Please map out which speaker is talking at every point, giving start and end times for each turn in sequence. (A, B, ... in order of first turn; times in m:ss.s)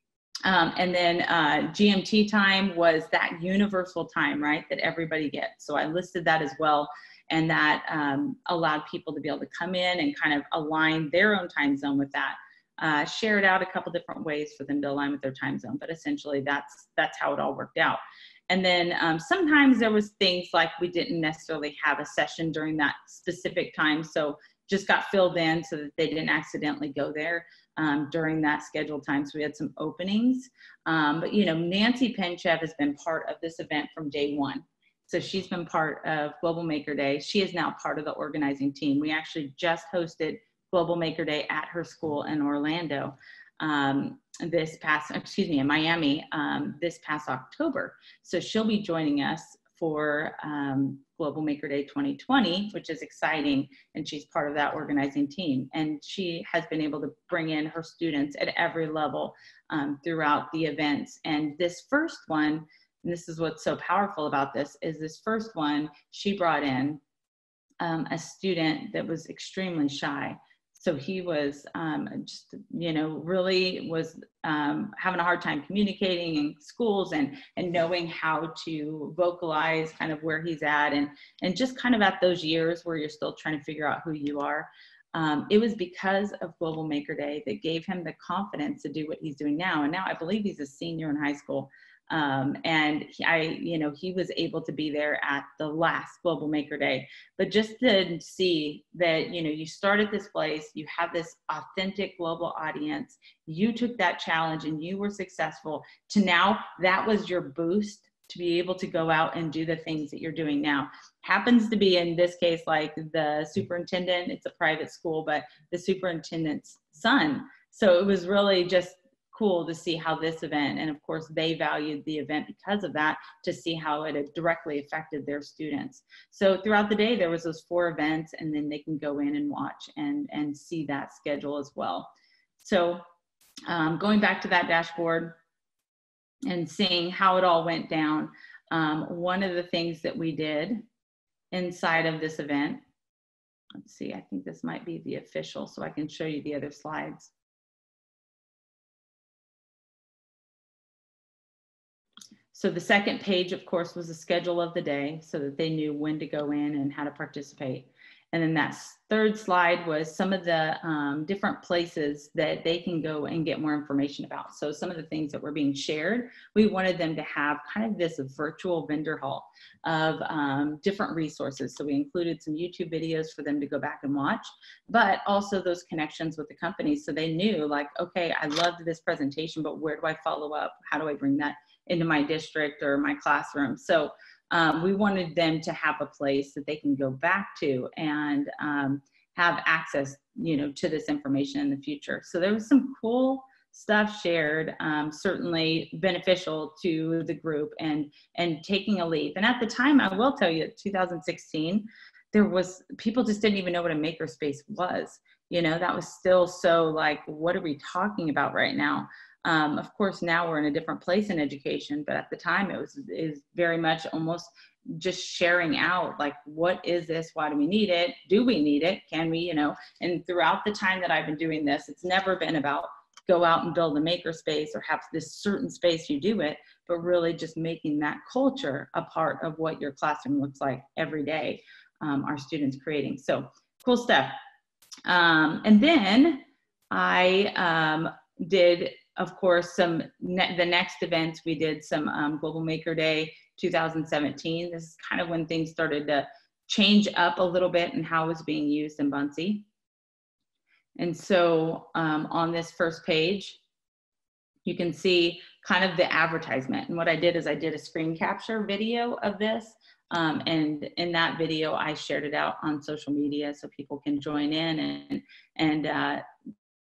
0:00.4-1:07.0 A
1:07.8-2:13.0 A
2:13.7-2:15.4 A
2:16.5-2:20.8 A
2:21.5-2:22.8 A
2:23.8-2:27.3 A
2:32.5-3:54.4 A
3:55.1-4:09.7 A
4:11.0-4:13.6 A
4:14.7-4:26.2 A